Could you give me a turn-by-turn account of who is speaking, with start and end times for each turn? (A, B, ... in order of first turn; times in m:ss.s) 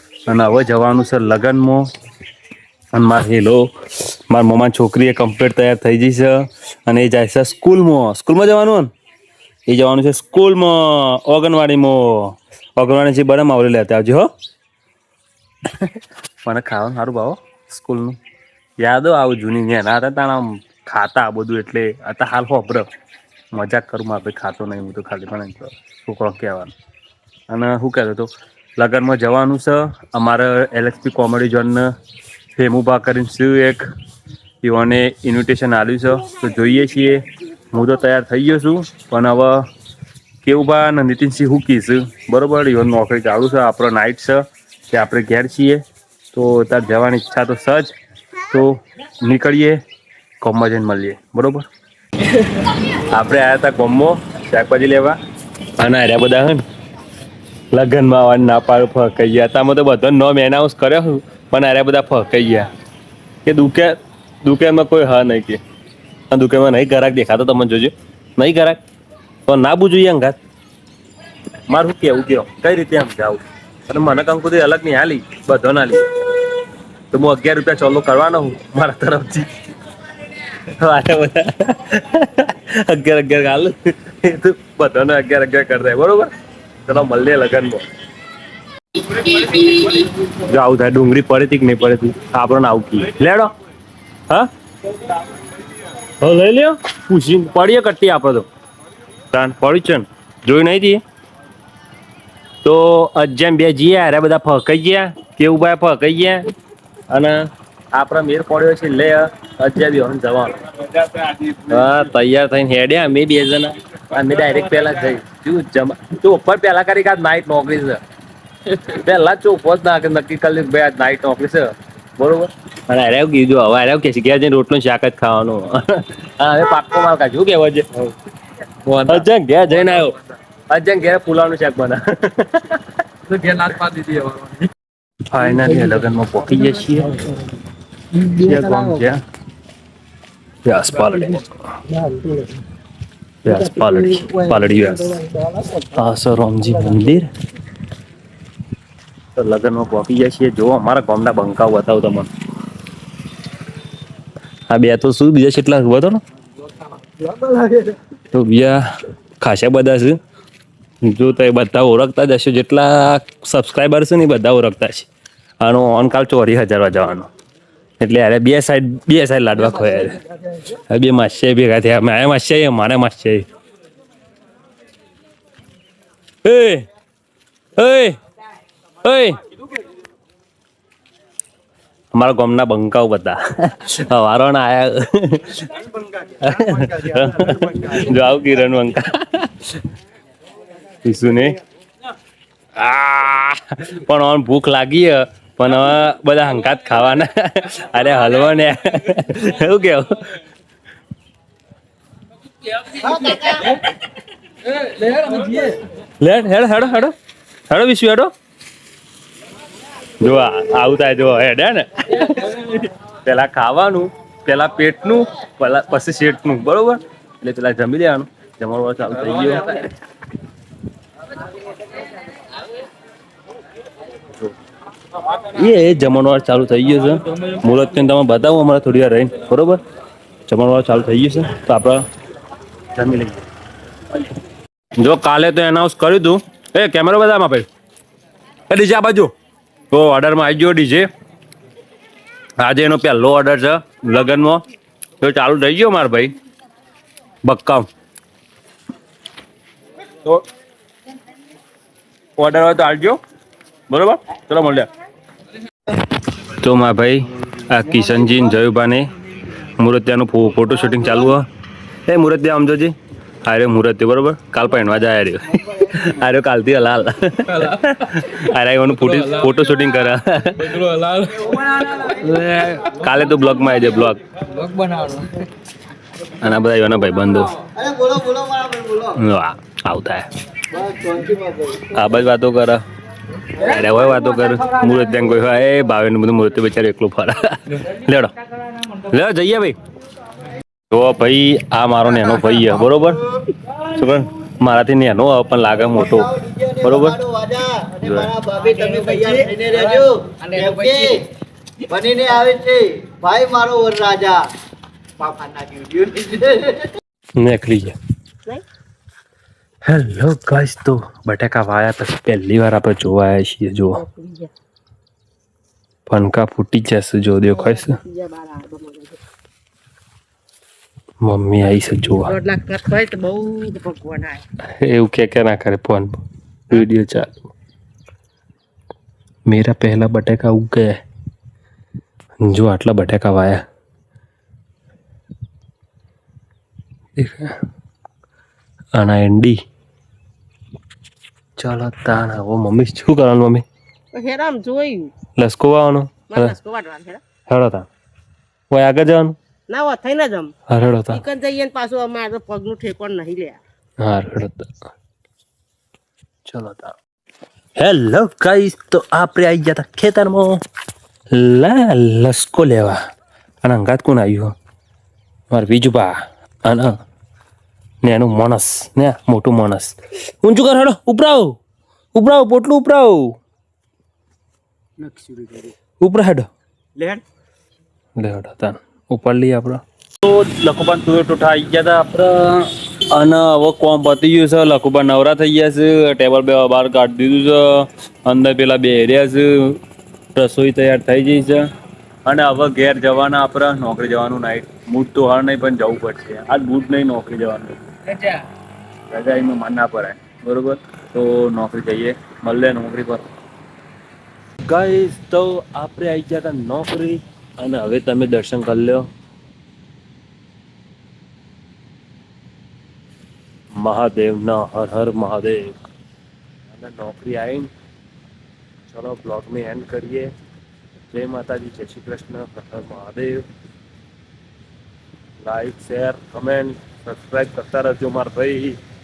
0:00.3-0:01.8 A
0:02.9-0:08.9 A
0:09.7-0:14.3 A
0:15.6-0:18.2 A
0:18.8-0:22.8 A
0:23.5-0:26.7 A
0:27.5-0:31.9 A
0:32.5-0:33.8 A
0:34.6-0:39.6 A
0:40.4-0:47.9 A
0:48.5-0:49.8 A
0:50.4-0:51.6 A
0:52.8-0:55.2 A
0:55.8-0:56.6 A
0:57.7-1:02.7 A
1:03.4-1:05.6 A
1:06.3-1:08.8 A
1:09.4-1:10.4 A
1:11.7-1:16.1 A
1:17.1-1:19.5 A
1:20.6-1:26.3 A
1:26.8-1:27.8 A
1:29.0-1:33.5 A
1:36.2-1:38.4 A
1:39.3-1:41.0 A
1:42.6-1:46.4 A
1:47.1-1:58.0 A
1:58.6-2:08.1 A
2:08.9-2:10.2 A
2:10.7-2:14.4 A
2:14.2-2:14.5 B
2:15.3-2:17.4 A
2:18.2-2:19.2 A
2:18.2-2:18.8 B
2:20.6-2:21.6 A
2:21.9-2:22.6 B
2:23.4-2:27.3 A
2:23.8-2:24.7 B
2:25.3-2:25.8 B
2:29.4-2:32.3 A
2:34.7-2:36.2 A
2:38.2-2:38.9 A
2:39.4-2:40.2 A
2:41.0-2:45.1 A
2:45.6-2:47.3 A
2:48.0-2:53.4 A
2:56.4-2:56.8 A
2:57.8-2:58.2 A
2:59.0-2:59.4 A
3:02.1-3:05.8 A
3:06.4-3:09.8 A
3:11.0-3:11.6 A
3:12.8-3:20.4 A
3:22.8-3:23.8 A
3:25.0-3:27.1 A
3:27.7-3:28.3 A
3:30.2-3:39.9 A
3:45.3-3:49.8 A
3:50.5-3:52.0 A
3:52.9-3:53.4 A
3:55.0-3:57.6 A
3:58.7-3:59.3 A
3:59.9-4:01.1 A
4:02.6-4:04.6 A
4:05.2-4:06.3 A
4:07.4-4:07.9 A
4:12.4-4:13.2 A
4:13.9-4:14.9 A
4:16.4-4:21.5 A
4:22.1-4:34.2 A
4:34.5-4:35.4 B
4:36.3-4:37.6 A
4:37.7-4:39.1 C
4:39.1-4:40.3 A
4:40.7-4:41.9 C
4:41.9-4:42.8 A
4:43.5-4:48.3 A
4:49.0-4:49.8 A
4:50.9-4:57.2 A
4:56.2-5:01.2 C
4:58.0-4:58.3 A
5:00.5-5:01.0 B
5:01.9-5:04.4 C
5:05.2-5:06.8 C
5:07.4-5:08.0 A
5:09.8-5:14.0 A
5:13.9-5:14.5 D
5:16.1-5:18.0 A
5:17.6-5:19.2 D
5:21.2-5:22.4 A
5:22.2-5:24.4 D
5:24.6-5:27.5 A
5:29.5-5:31.0 A
5:32.4-5:33.6 A
5:37.2-5:37.6 A
5:38.9-5:39.6 A
5:41.6-5:43.6 A
5:44.1-5:45.1 D
5:45.4-5:46.5 A
5:46.3-5:47.2 D
5:47.5-5:47.9 A
5:48.7-5:49.4 A
5:49.7-5:50.5 D
5:50.7-5:51.2 A
5:51.1-5:53.6 D
5:54.0-5:54.7 A
5:56.4-5:57.0 A
5:57.8-6:00.6 A
6:01.3-6:03.0 A
6:03.6-6:04.5 A
6:05.5-6:07.0 A
6:08.0-6:11.6 A
6:12.1-6:13.3 A
6:15.0-6:15.7 B
6:16.0-6:16.5 A
6:18.2-6:29.8 A
6:30.3-6:31.6 A
6:32.2-6:38.4 A
6:39.1-6:43.2 A
6:44.6-6:49.1 A
6:53.8-6:55.8 A
6:56.7-6:57.7 A
6:58.9-7:00.3 A
7:01.1-7:03.4 A
7:05.4-7:08.8 A